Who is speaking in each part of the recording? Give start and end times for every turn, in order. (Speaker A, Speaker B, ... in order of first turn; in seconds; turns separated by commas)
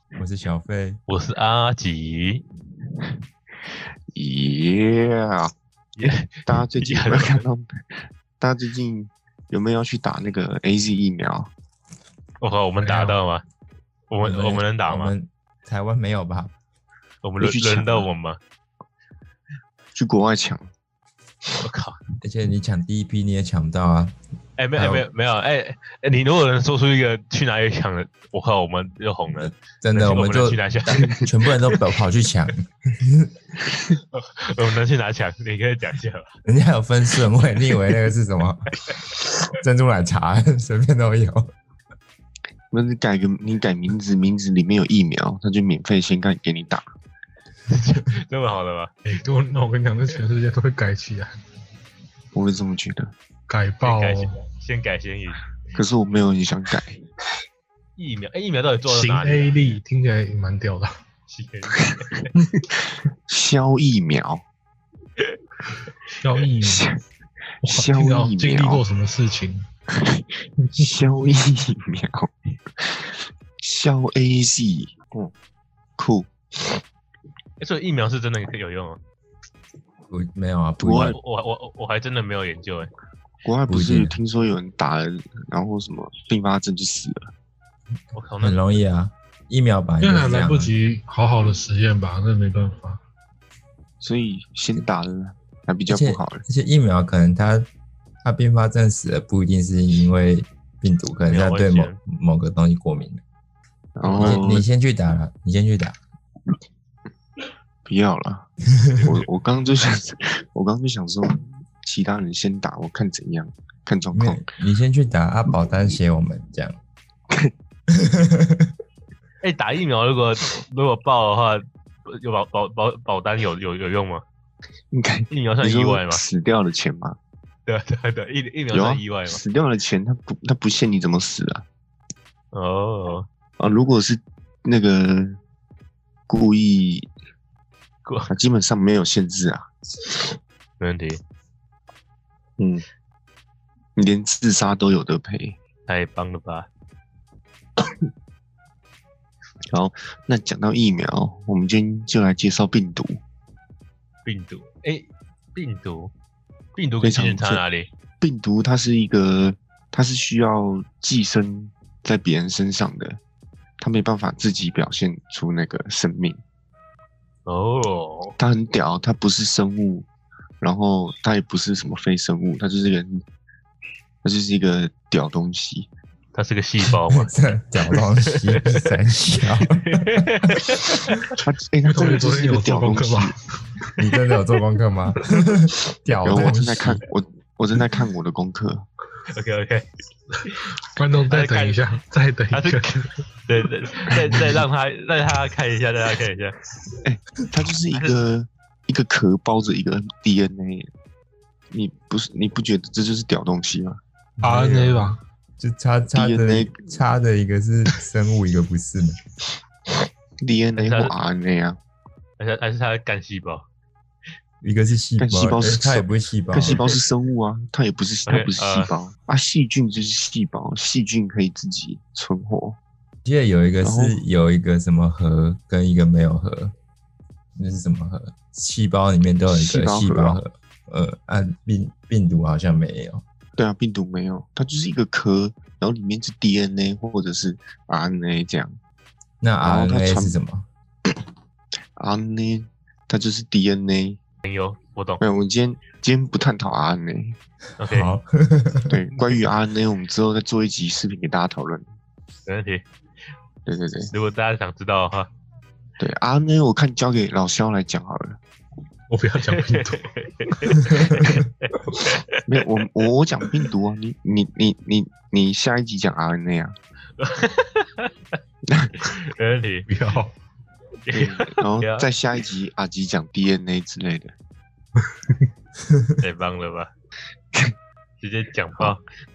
Speaker A: 0.2-1.0, Speaker B: 1.1-2.4, Speaker C: 4.1-5.5, Speaker B: 6.0-7.4, Speaker C: 6.1-7.7, Speaker C: 8.4-11.5, Speaker B: 12.4-13.4, Speaker D: 12.8-13.2, Speaker B: 14.1-15.1, Speaker A: 14.2-16.5, Speaker B: 17.2-18.4, Speaker C: 17.4-18.1, Speaker C: 19.9-20.7, Speaker B: 21.6-22.0, Speaker A: 22.2-24.1, Speaker B: 24.6-31.8, Speaker A: 24.8-25.0, Speaker A: 29.4-33.3, Speaker B: 34.1-36.3, Speaker A: 36.5-38.8, Speaker A: 39.5-41.5, Speaker C: 42.7-46.9, Speaker B: 47.7-48.9, Speaker D: 49.0-51.4, Speaker C: 52.3-53.1, Speaker D: 53.5-54.4, Speaker B: 53.8-55.4, Speaker C: 55.8-57.0, Speaker B: 58.0-59.5, Speaker D: 58.9-60.9, Speaker B: 61.3-62.3, Speaker C: 62.7-64.5, Speaker D: 66.2-66.8, Speaker C: 66.6-67.0, Speaker C: 67.6-68.8, Speaker D: 67.6-69.6, Speaker C: 69.9-75.3, Speaker C: 76.0-76.8, Speaker B: 77.6-79.0, Speaker A: 80.1-81.2, Speaker C: 80.8-81.2, Speaker B: 81.1-82.9, Speaker C: 83.4-87.2, Speaker A: 83.7-84.2, Speaker B: 88.1-88.6, Speaker A: 88.4-90.7, Speaker D: 90.0-93.0, Speaker C: 94.0-96.4, Speaker A: 95.9-97.7, Speaker A: 98.2-103.2, Speaker B: 101.3-102.0, Speaker C: 104.0-104.7, Speaker B: 104.0-104.4, Speaker A: 104.2-106.0, Speaker C: 107.9-114.5, Speaker A: 108.7-109.2, Speaker A: 114.1-116.8, Speaker A: 117.9-118.7, Speaker B: 119.4-124.2, Speaker C: 124.9-127.2, Speaker B: 125.3-126.2, Speaker B: 127.7-129.4, Speaker C: 128.7-131.7, Speaker B: 132.5-133.3, Speaker C: 133.6-135.4, Speaker C: 136.3-137.1, Speaker C: 138.3-140.3, Speaker B: 140.8-141.2, Speaker C: 142.6-142.8, Speaker C: 144.0-145.6, Speaker B: 145.9-146.7, Speaker C: 149.7-153.2, Speaker B: 154.2-156.1, Speaker B: 156.8-157.9, Speaker C: 157.0-157.6, Speaker C: 158.2-163.2, Speaker C: 163.8-166.4, Speaker B: 167.5-168.4, Speaker C: 168.4-170.1, Speaker C: 170.6-173.2, Speaker C: 174.2-175.9, Speaker B: 176.3-177.3, Speaker A: 177.1-181.4, Speaker B: 178.3-178.8, Speaker B: 179.7-181.1, Speaker C: 181.4-183.4, Speaker D: 181.9-183.4, Speaker A: 184.0-187.0, Speaker D: 186.2-187.0, Speaker C: 186.2-188.9, Speaker B: 189.3-189.9, Speaker D: 190.9-193.0, Speaker B: 191.3-191.8, Speaker B: 192.5-196.5, Speaker C: 197.0-200.9, Speaker C: 201.7-204.0, Speaker D: 204.4-205.2, Speaker A: 204.5-204.8, Speaker A: 205.6-209.2, Speaker C: 206.1-206.9, Speaker C: 210.4-211.8, Speaker B: 210.8-211.1, Speaker B: 212.4-213.7, Speaker A: 214.6-216.8, Speaker C: 215.2-222.8, Speaker B: 216.7-217.0, Speaker B: 218.3-218.9, Speaker A: 223.2-226.7, Speaker C: 223.8-224.2, Speaker A: 227.6-233.2, Speaker C: 229.5-230.4, Speaker C: 233.6-238.8, Speaker A: 239.4-240.7, Speaker C: 239.6-240.3, Speaker C: 242.0-244.2, Speaker B: 244.4-245.2, Speaker C: 245.2-247.4, Speaker B: 247.8-248.1, Speaker A: 247.8-249.0, Speaker C: 248.9-251.9, Speaker B: 252.5-252.8, Speaker C: 253.7-254.1, Speaker B: 254.1-255.3, Speaker C: 256.0-258.4, Speaker D: 259.1-260.0, Speaker B: 259.4-262.4, Speaker C: 262.5-266.7, Speaker B: 267.2-268.1, Speaker C: 268.7-269.0, Speaker B: 269.0-269.9, Speaker D: 269.9-270.3, Speaker B: 271.1-272.1, Speaker C: 271.1-274.3, Speaker B: 276.2-276.9, Speaker B: 278.2-279.0